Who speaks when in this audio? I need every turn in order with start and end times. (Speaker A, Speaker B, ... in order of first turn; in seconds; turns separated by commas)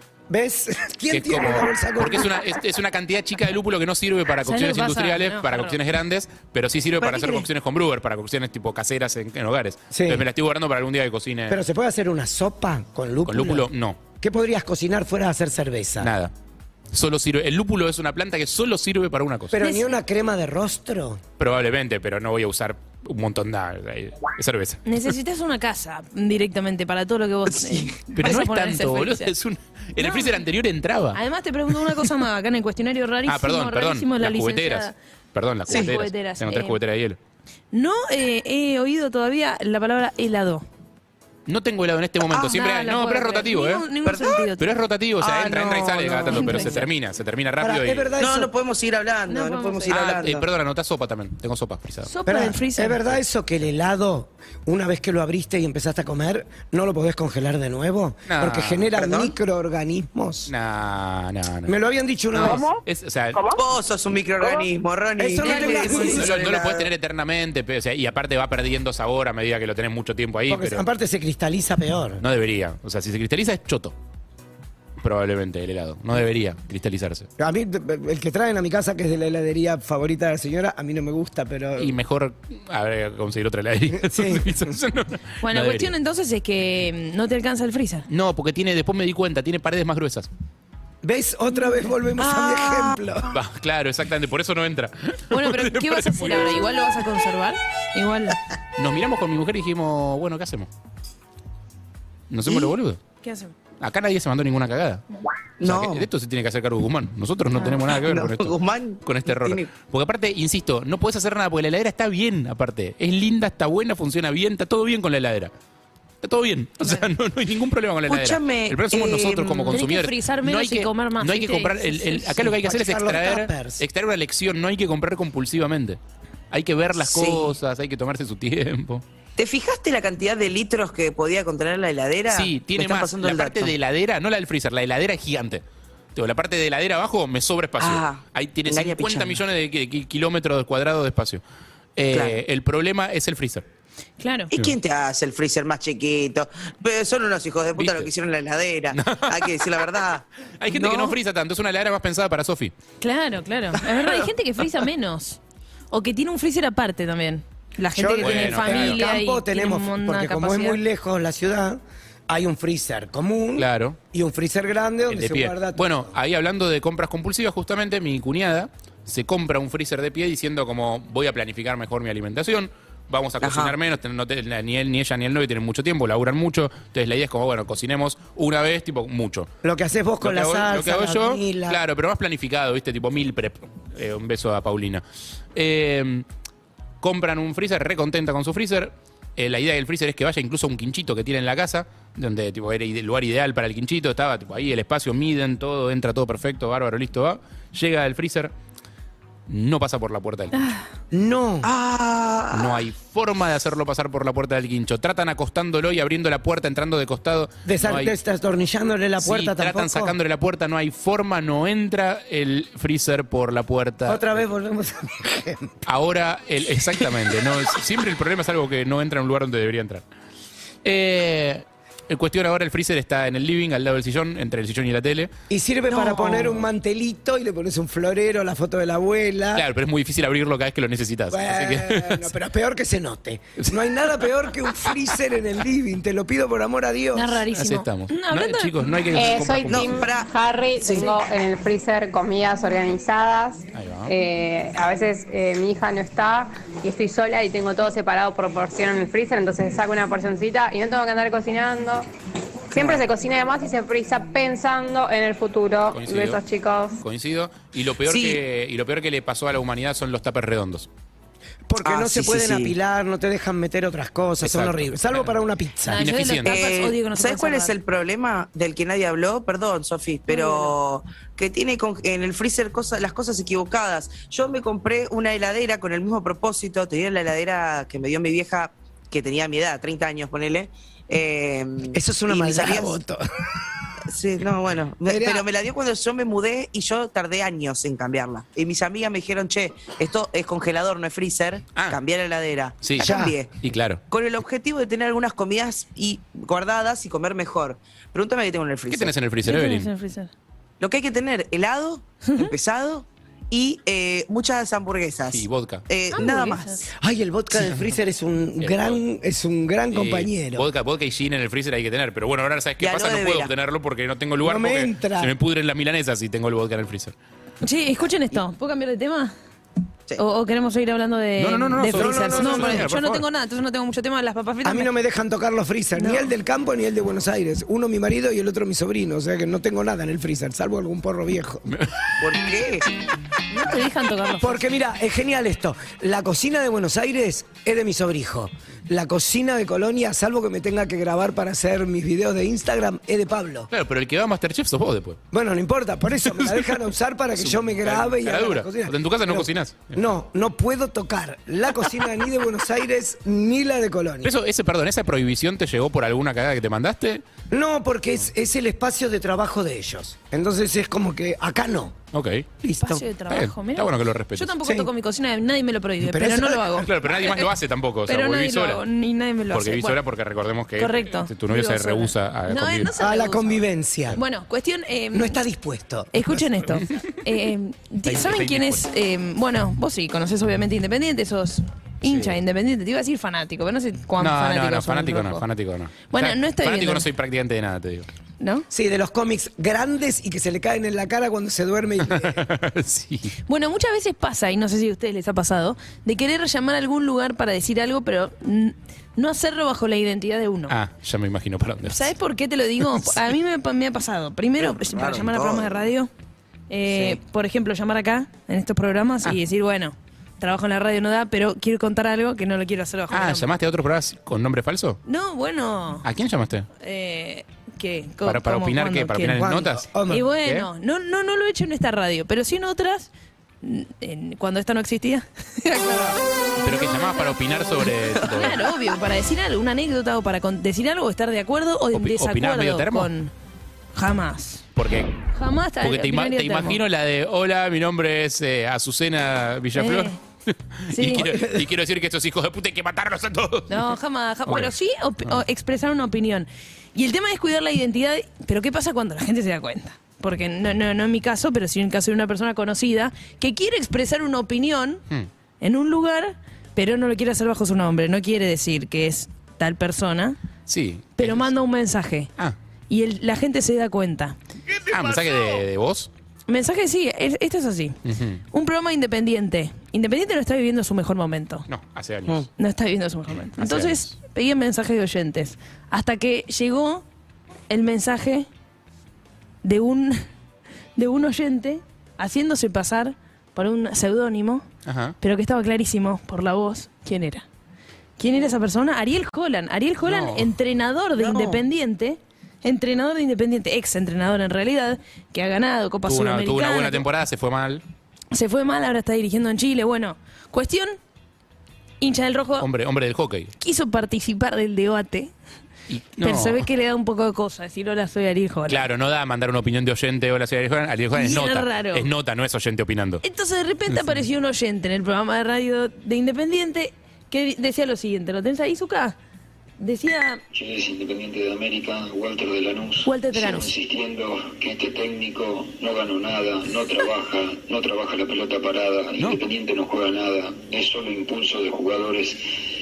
Speaker A: 0.3-2.6, Speaker B: 1.1-11.6, Speaker C: 4.5-5.8, Speaker D: 7.0-7.5, Speaker A: 9.9-10.3, Speaker A: 11.5-13.7, Speaker B: 13.3-14.0, Speaker A: 14.2-16.1, Speaker B: 16.0-16.3, Speaker B: 16.9-19.6, Speaker A: 19.5-21.2, Speaker C: 19.6-19.9, Speaker B: 21.4-24.9, Speaker C: 24.9-29.3, Speaker B: 28.1-31.2, Speaker C: 30.0-30.4, Speaker C: 31.1-35.0, Speaker B: 33.3-37.2, Speaker D: 35.7-35.9, Speaker C: 35.7-36.8, Speaker C: 37.7-40.6, Speaker B: 41.5-43.9, Speaker D: 42.3-42.6, Speaker C: 42.5-44.7, Speaker D: 44.0-44.5, Speaker B: 44.6-48.1, Speaker D: 45.2-46.9, Speaker C: 46.3-46.9, Speaker A: 47.6-48.5, Speaker D: 48.2-50.5, Speaker C: 49.3-50.0, Speaker B: 49.9-52.1, Speaker C: 52.1-53.0, Speaker A: 52.3-60.5, Speaker B: 58.3-58.9, Speaker D: 59.0-59.4, Speaker B: 60.5-61.8, Speaker A: 61.7-62.6, Speaker B: 62.3-63.4, Speaker D: 63.5-66.9, Speaker A: 65.2-66.4, Speaker B: 65.5-70.8, Speaker A: 70.5-72.2, Speaker B: 72.2-73.9, Speaker B: 75.0-77.3, Speaker A: 77.4-82.0, Speaker B: 81.8-85.9, Speaker A: 83.9-84.7, Speaker C: 85.4-88.1, Speaker B: 88.1-90.3, Speaker A: 91.0-93.3, Speaker D: 92.2-93.0, Speaker B: 93.3-96.7, Speaker C: 95.3-98.4, Speaker B: 98.8-100.7, Speaker B: 102.3-103.0, Speaker C: 103.2-103.5, Speaker B: 103.8-105.0, Speaker D: 105.6-106.1, Speaker B: 105.6-115.5, Speaker D: 107.6-109.7, Speaker B: 116.2-126.0, Speaker D: 118.1-119.8, Speaker C: 119.7-122.5, Speaker A: 122.4-123.8, Speaker B: 126.5-129.0, Speaker D: 127.0-127.5, Speaker D: 129.4-133.7, Speaker B: 132.3-135.6, Speaker B: 136.2-141.4, Speaker D: 137.8-139.4, Speaker B: 142.0-143.7, Speaker D: 142.1-142.4, Speaker C: 144.2-144.5, Speaker D: 144.5-151.2, Speaker B: 147.8-148.1, Speaker B: 148.9-149.5, Speaker B: 150.6-152.7, Speaker C: 153.0-155.4, Speaker D: 153.9-154.3, Speaker C: 155.9-160.8, Speaker A: 157.9-166.0, Speaker B: 158.2-159.1, Speaker B: 163.6-164.0, Speaker B: 165.1-179.5, Speaker D: 173.4-173.7, Speaker A: 179.6-181.8, Speaker B: 180.2-185.0, Speaker B: 185.6-186.2, Speaker B: 187.0-198.5, Speaker B: 199.5-200.6, Speaker C: 200.5-200.8, Speaker A: 201.1-201.7, Speaker D: 201.6-202.8, Speaker B: 202.5-208.2, Speaker A: 207.7-210.2, Speaker B: 209.2-214.4, Speaker A: 214.1-215.7, Speaker B: 215.9-220.0, Speaker B: 220.8-225.3, Speaker A: 225.5-229.7, Speaker D: 225.9-226.7, Speaker B: 229.5-232.3, Speaker A: 231.3-237.4, Speaker C: 237.2-239.0, Speaker B: 237.5-240.1, Speaker E: 239.1-252.1, Speaker D: 239.7-240.3, Speaker C: 240.8-241.2, Speaker B: 243.8-244.1, Speaker E: 252.7-257.0, Speaker A: 252.7-253.0, Speaker D: 252.8-253.0, Speaker B: 255.9-256.4, Speaker B: 257.0-260.9, Speaker D: 258.1-258.4, Speaker A: 261.7-266.0, Speaker D: 261.8-262.8, Speaker B: 264.4-265.4, Speaker C: 265.9-267.7, Speaker B: 265.9-266.6, Speaker D: 266.4-283.0, Speaker C: 270.3-270.7, Speaker A: 281.9-283.2, Speaker D: 284.1-293.5, Speaker A: 285.1-285.4, Speaker B: 292.8-294.0, Speaker A: 293.0-293.4, Speaker D: 294.1-299.1, Speaker B: 298.9-299.9, Speaker C: 299.4-300.3, Speaker D: 300.8-306.9, Speaker B: 305.3-305.9, Speaker C: 306.1-306.8, Speaker A: 307.0-310.7, Speaker B: 308.6-309.0, Speaker B: 309.9-317.1, Speaker D: 312.8-313.5, Speaker A: 314.4-315.3, Speaker C: 317.6-319.3, Speaker C: 320.2-324.9, Speaker B: 321.4-323.2, Speaker A: 321.9-323.0, Speaker A: 324.6-331.7, Speaker C: 326.0-326.3, Speaker B: 331.7-332.1, Speaker D: 332.2-332.9, Speaker C: 333.5-334.6, Speaker A: 334.4-343.7, Speaker B: 343.7-345.2, Speaker A: 345.3-354.3, Speaker B: 346.3-346.8, Speaker B: 347.4-350.0, Speaker B: 354.2-357.2, Speaker A: 357.5-362.0, Speaker B: 362.1-362.5, Speaker A: 362.6-363.0, Speaker C: 362.8-367.5, Speaker B: 363.3-364.6, Speaker A: 364.6-364.9, Speaker A: 366.0-366.9, Speaker B: 366.8-368.8, Speaker C: 368.1-370.0, Speaker B: 369.5-372.9, Speaker C: 370.8-375.4, Speaker A: 373.0-374.2, Speaker A: 375.1-376.5, Speaker C: 376.1-385.4, Speaker B: 378.1-378.8, Speaker B: 382.0-382.4, Speaker B: 384.2-388.1, Speaker C: 386.1-387.1, Speaker C: 388.4-388.7, Speaker A: 388.7-392.4, Speaker B: 392.1-393.3, Speaker C: 393.5-400.7, Speaker B: 400.7-402.1, Speaker C: 401.8-406.1, Speaker D: 404.6-405.9, Speaker C: 406.7-413.5, Speaker D: 406.9-407.2, Speaker B: 413.1-415.0, Speaker C: 415.1-416.1, Speaker B: 416.0-416.7, Speaker C: 416.8-419.4, Speaker B: 418.2-419.9, Speaker A: 419.4-420.3, Speaker C: 420.1-423.1, Speaker C: 423.6-426.2, Speaker B: 426.6-428.6, Speaker C: 426.8-427.4, Speaker C: 428.2-433.3, Speaker B: 431.9-433.1, Speaker C: 433.9-434.6, Speaker B: 434.8-435.1, Speaker C: 435.3-436.8, Speaker B: 435.8-443.9, Speaker C: 439.8-440.2, Speaker C: 440.9-441.4, Speaker C: 443.7-455.0, Speaker B: 444.5-444.7, Speaker C: 455.6-460.4, Speaker B: 460.7-461.5, Speaker C: 461.2-462.3, Speaker C: 462.9-464.4, Speaker B: 464.9-466.1, Speaker C: 466.5-468.0, Speaker B: 468.1-468.4, Speaker C: 468.5-471.7, Speaker B: 471.7-472.5, Speaker C: 472.6-477.0, Speaker B: 473.6-474.1, Speaker C: 477.7-478.5, Speaker C: 479.6-480.3, Speaker C: 481.0-484.7, Speaker B: 484.9-485.2, Speaker C: 485.2-487.4, Speaker C: 488.2-497.1, Speaker B: 490.1-490.5, Speaker D: 491.1-491.6, Speaker B: 496.1-497.8, Speaker C: 498.3-501.0, Speaker C: 502.0-502.7, Speaker B: 502.6-503.5, Speaker C: 503.6-505.3, Speaker B: 505.9-506.7, Speaker C: 506.2-508.9, Speaker B: 508.7-513.2, Speaker C: 511.1-512.1, Speaker C: 513.2-519.2, Speaker B: 513.9-514.2, Speaker C: 519.8-520.4, Speaker F: 520.5-532.4, Speaker C: 523.0-523.7